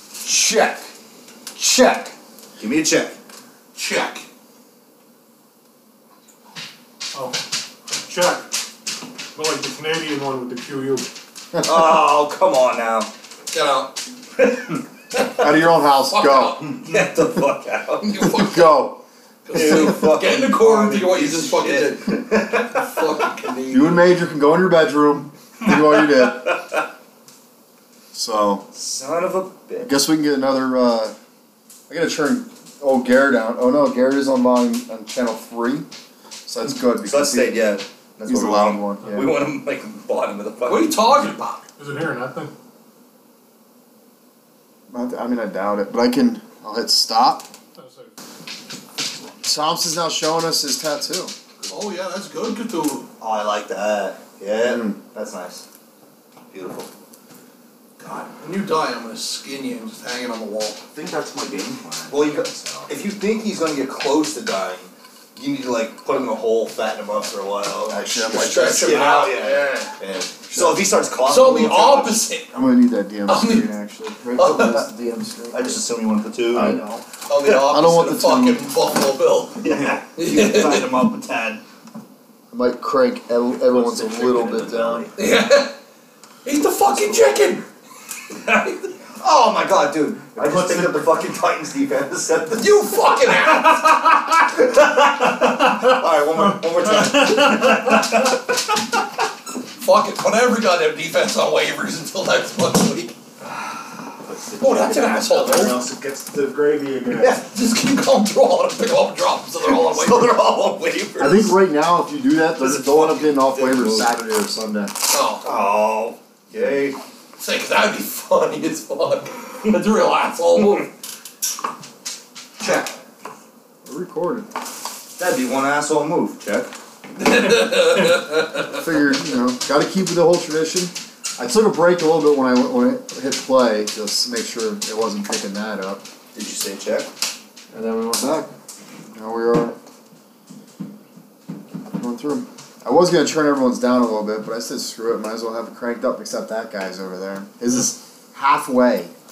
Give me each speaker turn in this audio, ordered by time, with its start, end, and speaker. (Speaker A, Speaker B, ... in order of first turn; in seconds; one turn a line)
Speaker A: 0.2-0.8
Speaker A: 1.6-2.1
Speaker B: 2.6-3.1
Speaker C: 3.7-4.2
Speaker D: 7.1-7.4
Speaker D: 8.0-8.5
Speaker D: 9.3-11.1
Speaker B: 11.6-13.1
Speaker C: 13.5-14.0
Speaker B: 14.4-15.5
Speaker A: 15.4-16.7
Speaker C: 16.1-16.8
Speaker B: 16.8-18.2
Speaker C: 18.0-18.9
Speaker A: 18.1-19.0
Speaker C: 19.4-24.2
Speaker B: 19.5-22.9
Speaker A: 19.6-20.0
Speaker A: 23.7-26.5
Speaker B: 25.6-26.8
Speaker A: 28.1-28.6
Speaker B: 28.7-30.0
Speaker A: 29.8-31.1
Speaker A: 31.9-35.9
Speaker A: 36.5-37.7
Speaker B: 37.0-41.0
Speaker A: 38.3-39.2
Speaker D: 39.0-39.3
Speaker C: 40.6-41.6
Speaker D: 41.8-42.5
Speaker A: 44.9-47.5
Speaker D: 47.8-48.1
Speaker A: 49.4-51.3
Speaker C: 51.7-53.1
Speaker B: 53.2-55.6
Speaker A: 54.6-55.0
Speaker B: 56.5-56.9
Speaker E: 58.0-58.3
Speaker C: 58.4-60.8
Speaker E: 60.9-62.9
Speaker B: 62.1-72.3
Speaker A: 67.9-68.8
Speaker C: 68.1-69.9
Speaker A: 70.5-70.9
Speaker C: 71.2-72.5
Speaker A: 72.5-75.8
Speaker C: 73.2-73.7
Speaker C: 74.3-74.9
Speaker B: 75.5-76.8
Speaker A: 76.5-77.0
Speaker C: 77.2-79.6
Speaker A: 77.6-78.6
Speaker B: 79.6-81.6
Speaker C: 80.2-81.0
Speaker A: 82.5-85.1
Speaker B: 83.7-85.1
Speaker C: 85.2-85.8
Speaker C: 86.4-87.7
Speaker C: 88.3-88.9
Speaker B: 89.2-92.8
Speaker E: 90.4-90.9
Speaker C: 92.5-94.2
Speaker B: 93.4-98.6
Speaker C: 99.8-103.1
Speaker E: 104.2-105.9
Speaker C: 104.6-105.8
Speaker D: 105.3-107.4
Speaker B: 107.1-107.5
Speaker C: 107.5-110.4
Speaker B: 109.6-111.5
Speaker A: 111.2-114.9
Speaker B: 112.6-114.1
Speaker C: 115.0-115.4
Speaker B: 115.4-117.0
Speaker C: 117.4-120.9
Speaker B: 122.6-122.8
Speaker A: 123.8-124.5
Speaker B: 125.2-126.7
Speaker C: 127.2-128.8
Speaker A: 128.8-136.0
Speaker B: 136.3-137.1
Speaker A: 137.7-138.5
Speaker A: 139.1-139.8
Speaker A: 141.9-149.1